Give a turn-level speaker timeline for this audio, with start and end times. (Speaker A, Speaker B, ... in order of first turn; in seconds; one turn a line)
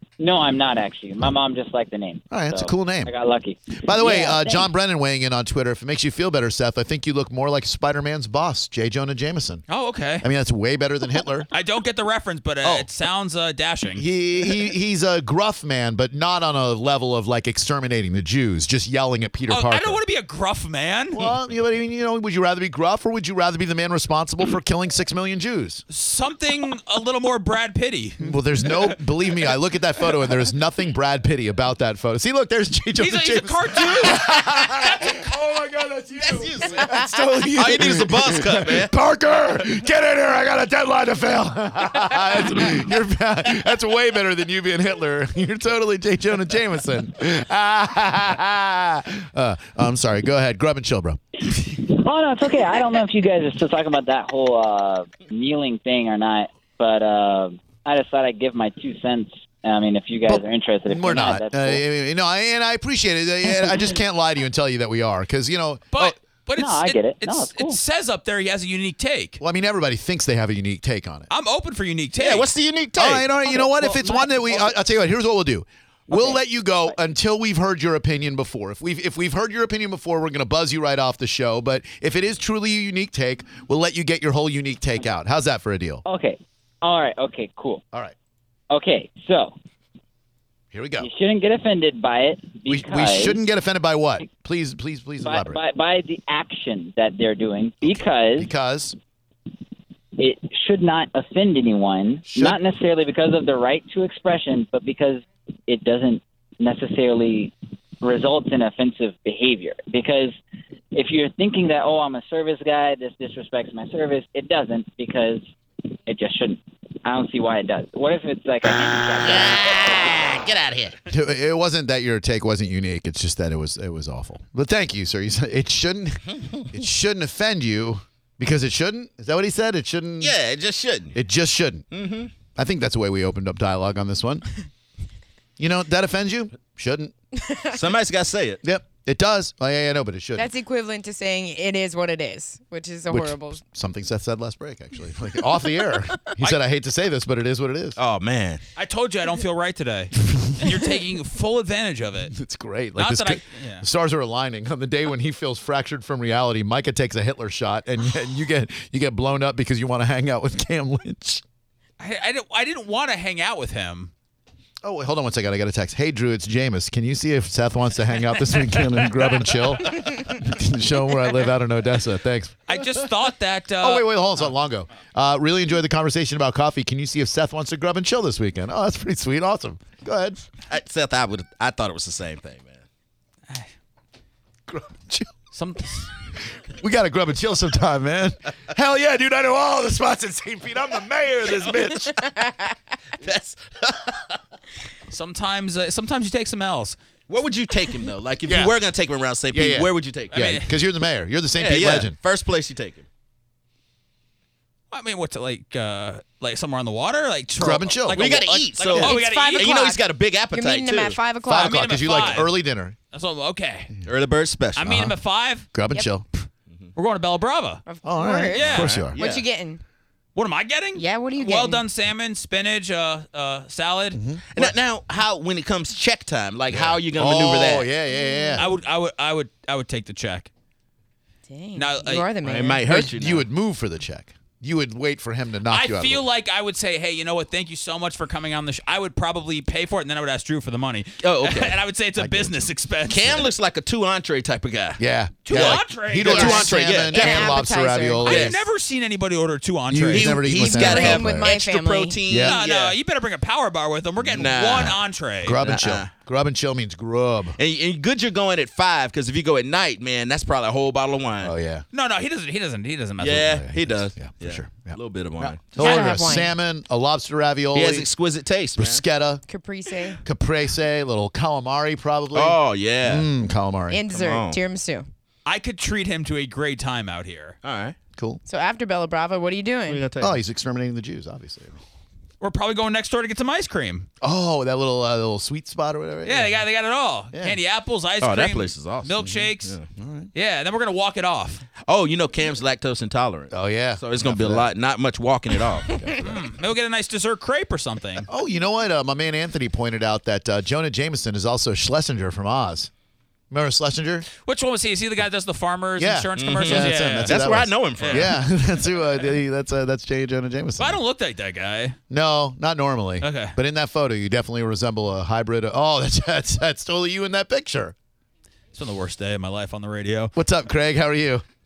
Speaker A: 0.2-4.6
Speaker B: 2.3-3.1
Speaker B: 3.8-9.6
Speaker C: 9.7-10.3
Speaker B: 10.2-11.5
Speaker C: 11.5-14.0
Speaker B: 12.6-12.9
Speaker B: 13.9-20.0
Speaker C: 19.5-21.3
Speaker B: 21.1-25.8
Speaker C: 25.9-28.9
Speaker B: 28.2-51.2
Speaker C: 33.0-35.1
Speaker D: 36.2-38.9
Speaker A: 51.7-61.8
Speaker B: 60.3-66.1
Speaker C: 65.9-69.4
Speaker A: 66.6-67.8
Speaker B: 69.4-71.3
Speaker C: 71.3-72.5
Speaker D: 72.2-73.3
Speaker B: 73.0-86.0
Speaker A: 73.5-74.7
Speaker A: 76.1-76.4
Speaker A: 86.0-87.8
Speaker A: 88.7-89.5
Speaker B: 90.7-91.1
Speaker A: 91.0-93.4
Speaker B: 92.7-95.6
Speaker A: 95.2-98.5
Speaker B: 97.8-99.0
Speaker A: 100.2-110.4
Speaker B: 102.3-102.6
Speaker A: 110.9-115.5
Speaker A: 116.0-119.8
Speaker D: 119.2-121.0
Speaker B: 121.1-130.3
Speaker D: 126.3-126.6
Speaker D: 130.2-131.2
Speaker B: 131.1-131.9
Speaker D: 131.9-132.3
Speaker B: 132.5-134.5
Speaker B: 135.6-137.1
Speaker D: 137.7-138.6
Speaker B: 138.6-140.5
Speaker E: 140.3-143.6
Speaker B: 143.1-148.0
Speaker D: 148.0-148.6
Speaker C: 148.8-152.3
Speaker B: 152.3-161.4
Speaker C: 153.0-153.8
Speaker C: 162.0-164.1
Speaker B: 164.8-172.7
Speaker C: 172.7-174.3
Speaker B: 173.8-180.4
Speaker D: 180.7-182.8
Speaker B: 184.7-185.3
Speaker C: 185.5-186.1
Speaker B: 186.8-192.4
Speaker D: 193.2-194.4
Speaker C: 195.1-197.0
Speaker D: 197.3-200.6
Speaker B: 198.4-198.8
Speaker B: 199.5-202.1
Speaker C: 200.3-200.7
Speaker D: 201.6-203.0
Speaker C: 204.9-209.7
Speaker B: 207.6-208.4
Speaker D: 208.2-211.2
Speaker E: 208.9-211.8
Speaker B: 211.4-212.9
Speaker C: 211.5-212.5
Speaker C: 213.1-213.9
Speaker D: 214.0-215.0
Speaker C: 214.8-215.7
Speaker B: 214.8-215.1
Speaker B: 215.7-216.2
Speaker C: 216.9-217.8
Speaker E: 217.8-219.8
Speaker B: 218.0-219.2
Speaker C: 218.5-218.9
Speaker D: 218.6-219.4
Speaker C: 220.3-224.2
Speaker E: 221.0-221.8
Speaker B: 224.1-224.7
Speaker D: 224.5-227.9
Speaker B: 226.7-228.7
Speaker E: 228.1-228.7
Speaker C: 228.6-230.5
Speaker E: 231.5-232.9
Speaker C: 231.8-232.3
Speaker D: 232.4-233.4
Speaker B: 232.8-236.2
Speaker C: 235.7-243.5
Speaker D: 241.2-241.8
Speaker B: 242.2-242.7
Speaker D: 243.1-247.6
Speaker B: 245.0-248.6
Speaker C: 245.4-246.6
Speaker E: 246.3-248.3
Speaker C: 248.2-250.4
Speaker D: 248.2-248.6
Speaker B: 249.9-251.5
Speaker D: 250.1-252.9
Speaker E: 250.6-252.2
Speaker B: 252.3-252.6
Speaker C: 252.4-255.6
Speaker D: 254.2-255.0
Speaker B: 255.4-257.6
Speaker D: 255.5-256.1
Speaker D: 257.6-261.5
Speaker B: 261.4-261.8
Speaker C: 261.9-263.6
Speaker D: 263.2-265.6
Speaker B: 263.3-268.1
Speaker E: 265.8-266.5
Speaker C: 265.8-266.1
Speaker D: 267.7-269.0
Speaker B: 268.8-269.4
Speaker E: 269.5-270.2
Speaker B: 270.2-274.1
Speaker D: 272.3-273.3
Speaker E: 273.9-275.1
Speaker D: 274.1-274.6
Speaker C: 275.4-277.6
Speaker D: 277.6-277.9
Speaker E: 278.4-280.0
Speaker D: 279.9-280.4
Speaker B: 280.2-281.8
Speaker C: 282.4-284.1
Speaker B: 284.2-286.6
Speaker C: 286.2-289.7
Speaker B: 287.3-287.6
Speaker D: 288.2-289.9
Speaker B: 290.0-290.3
Speaker C: 290.3-291.6
Speaker D: 291.8-296.3
Speaker B: 293.5-294.7
Speaker B: 295.9-296.4
Speaker C: 296.2-298.3
Speaker B: 298.2-302.9
Speaker B: 303.5-304.3
Speaker C: 304.4-308.3
Speaker B: 306.0-311.0
Speaker D: 306.4-308.3
Speaker C: 310.8-312.0
Speaker B: 312.1-317.9
Speaker C: 313.2-313.5
Speaker C: 318.7-320.3
Speaker B: 320.4-321.4